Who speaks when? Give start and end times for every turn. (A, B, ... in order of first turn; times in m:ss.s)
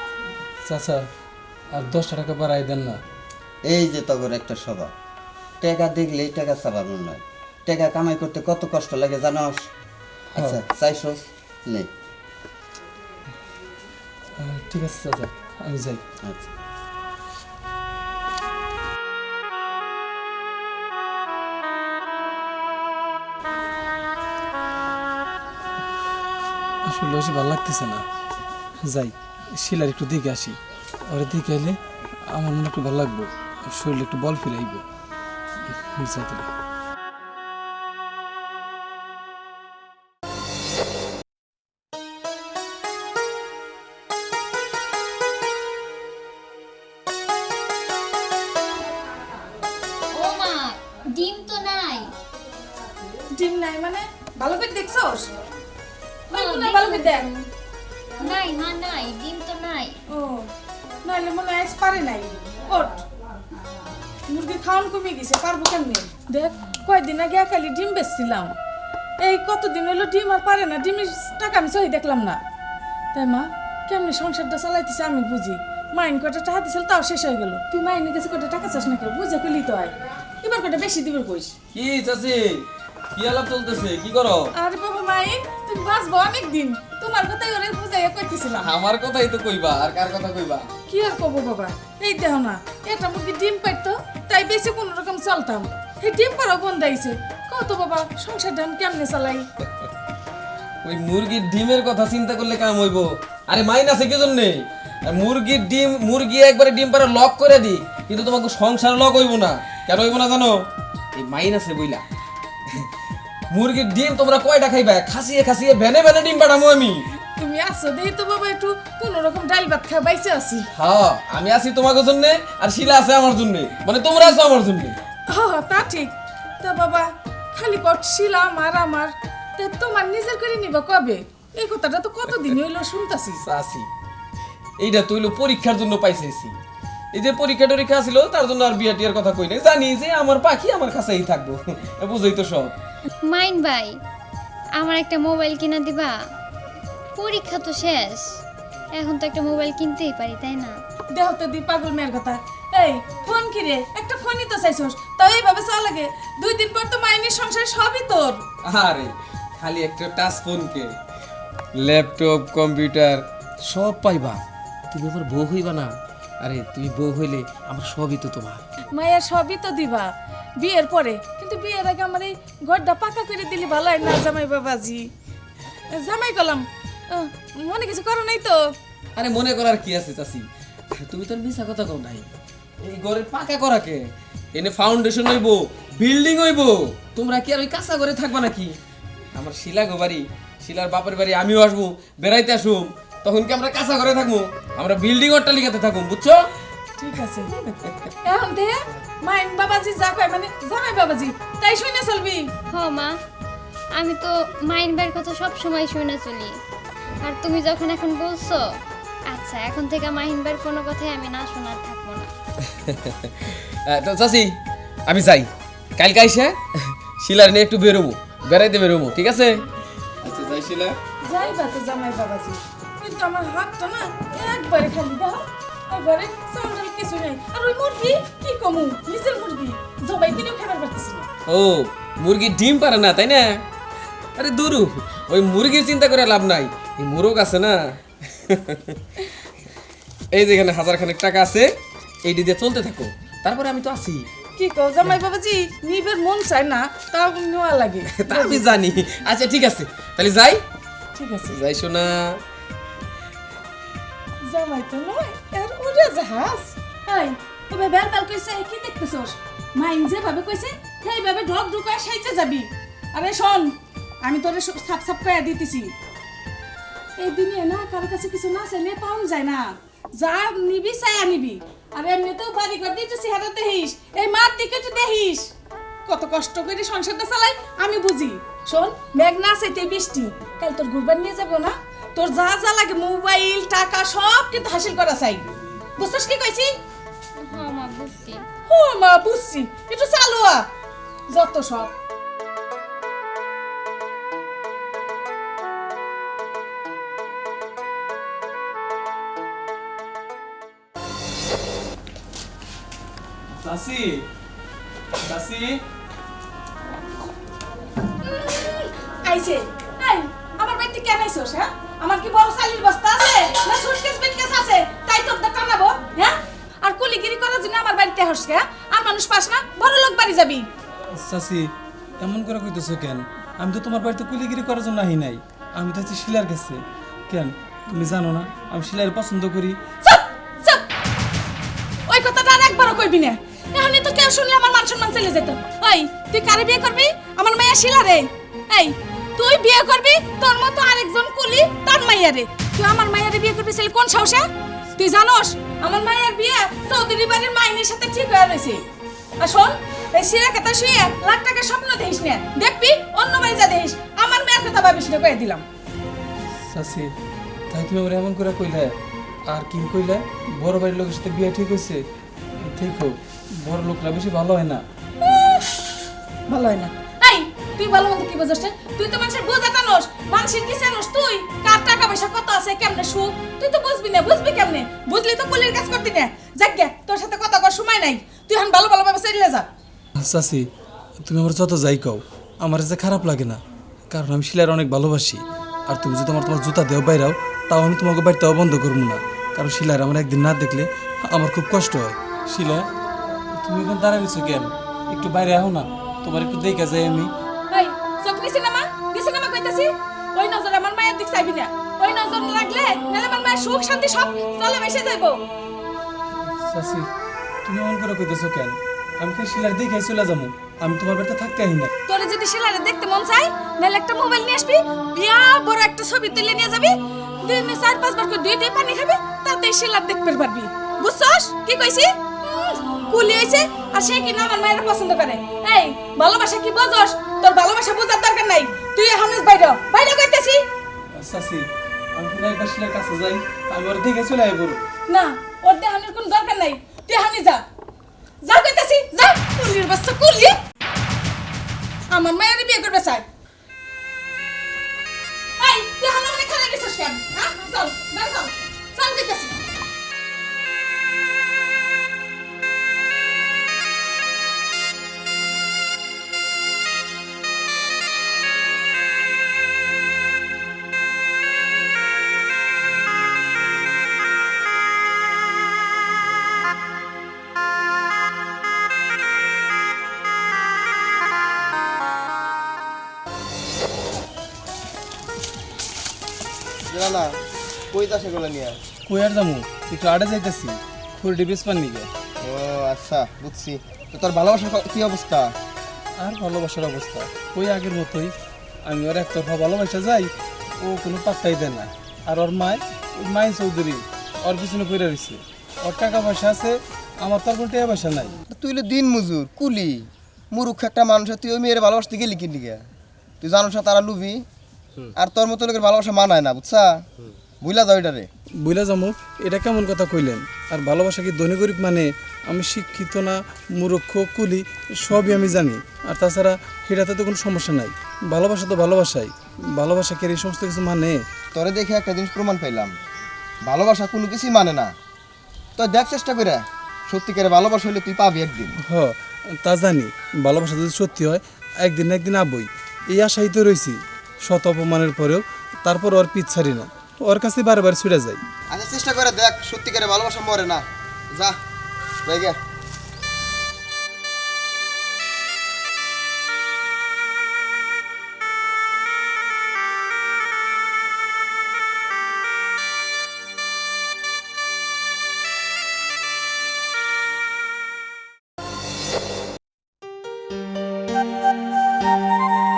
0:00.6-0:01.1 A
0:01.7-0:03.0 A
0:03.6-0:04.9 B
0:05.6-0:09.7 B
0:10.3-0:11.9 B
0:10.4-0:10.6 A
0:14.4-0:16.0 A
0:16.2-0:16.5 B
0:26.8-0:28.1 A
0:28.8-0:34.8 A
0:35.7-0:36.5 A
0:50.1-0:52.1 C
0:53.3-0:55.3 D
0:56.3-0:57.3 D
0:56.3-0:57.4 C
0:58.2-1:00.0 C
1:00.1-1:00.5 D
1:01.0-1:03.0 D
1:04.3-1:08.6 D
1:09.2-1:12.4 D
1:13.1-1:21.5 D
1:21.7-1:24.5 E
1:24.5-1:28.7 D
1:28.6-1:30.7 E
1:30.9-1:39.5 D
1:40.8-1:50.6 E
1:51.2-1:52.0 E
1:53.5-1:57.0 E
1:57.4-2:00.7 D
2:00.8-2:05.0 E
2:05.3-2:13.4 D
2:13.4-2:13.9 E
2:14.8-2:16.6 E
2:17.1-2:22.8 E
2:23.3-2:24.0 C
2:24.8-2:26.2 C
2:27.2-2:28.3 C
2:28.9-2:30.8 C
2:31.1-2:38.4 D
2:38.6-2:40.9 E
2:41.8-2:48.6 E
2:48.9-2:50.1 D
2:50.6-2:55.1 D
2:55.9-2:58.7 D
2:59.2-3:02.3 E
3:02.8-3:08.8 E
3:09.3-3:16.5 E
3:17.0-3:17.5 D
3:18.2-3:22.5 D
3:22.7-3:23.2 C
3:23.9-3:26.6 C
3:27.2-3:32.3 C
3:32.6-3:34.6 E
3:35.1-3:39.6 E
3:40.2-3:41.0 E
3:41.2-3:51.3 D
3:51.5-3:53.6 E
3:54.4-3:59.0 E
4:00.3-4:04.3 E
4:04.6-4:08.7 D
4:08.1-4:10.6 E
4:11.2-4:11.6 D
4:11.5-4:12.4 E
4:14.4-4:25.9 D
4:27.2-4:35.5 D
4:36.1-4:46.7 D
4:47.4-4:48.4 C
4:48.7-4:50.7 D
4:51.3-4:51.9 D
5:03.5-5:04.3 A
5:05.2-5:05.8 A
5:08.3-5:20.7 D
5:21.2-5:29.9 A
5:30.0-5:30.9 D
5:32.1-5:48.8 D
5:49.4-5:55.6 D
5:56.7-5:57.1 A
5:57.7-5:59.0 A
5:59.5-6:02.0 A
6:02.6-6:04.8 A
6:05.2-6:05.6 D
6:06.5-6:19.7 D
6:20.2-6:20.7 A
6:21.2-6:32.9 A
6:33.5-6:37.3 A
6:37.7-6:45.4 D
6:46.4-6:47.1 A
6:47.6-6:51.9 A
6:52.1-7:10.6 D
7:11.1-7:14.8 A
7:15.1-7:17.6 D
7:18.4-7:20.6 D
7:22.1-7:23.2 D
7:25.6-7:29.6 D
7:56.9-7:57.4 F
7:57.9-7:58.8 F
7:59.1-8:02.1 A
8:02.4-8:05.5 F
8:06.2-8:08.3 A
8:08.8-8:18.4 A
8:18.5-8:22.8 F
8:23.4-8:24.4 F
8:25.2-8:27.0 F
8:27.6-8:28.3 F
8:28.6-8:41.2 A
8:41.6-8:42.9 F
8:43.6-8:44.9 F
8:45.8-8:48.8 F
8:48.8-8:58.4 A
8:58.7-9:01.6 F
9:02.3-9:02.6 F